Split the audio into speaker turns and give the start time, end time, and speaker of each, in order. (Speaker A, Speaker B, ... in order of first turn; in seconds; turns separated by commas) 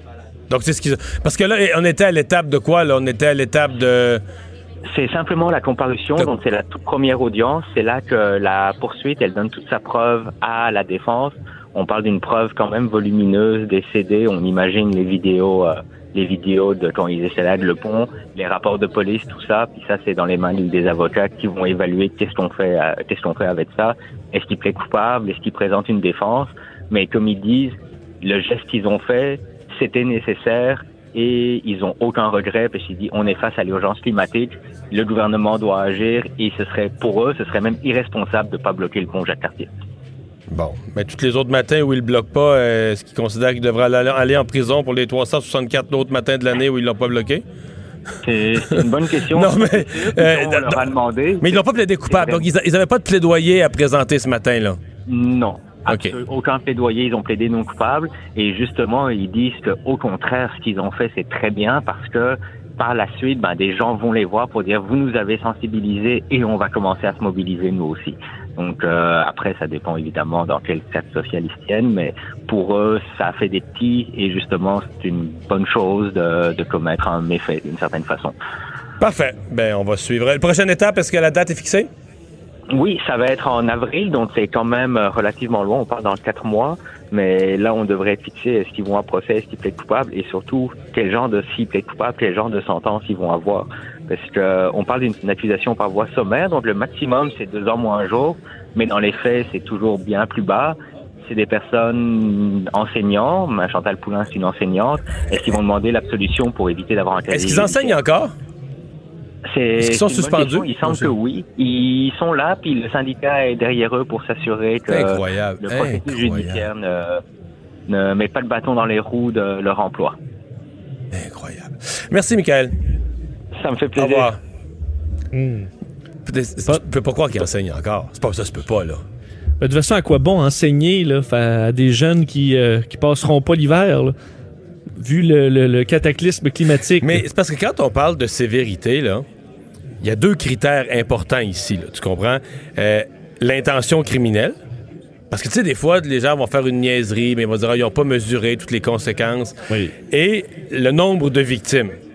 Speaker A: 0.5-4.2, Speaker B: 4.9-39.7, Speaker A: 40.5-47.4, Speaker B: 48.2-52.5, Speaker A: 48.7-54.8, Speaker B: 55.1-78.3, Speaker A: 55.9-56.1, Speaker A: 79.0-81.9, Speaker B: 82.7-108.0, Speaker A: 107.3-108.3, Speaker B: 109.5-117.2, Speaker A: 109.8-111.1, Speaker A: 114.9-116.7, Speaker B: 117.9-120.2, Speaker A: 121.1-122.7, Speaker B: 123.5-124.3, Speaker A: 124.0-124.4, Speaker C: 125.3-125.7, Speaker A: 126.3-129.0, Speaker C: 129.6-134.1, Speaker C: 135.0-137.2, Speaker A: 137.0-139.3, Speaker A: 140.0-144.6, Speaker A: 145.3-149.6, Speaker A: 150.1-152.0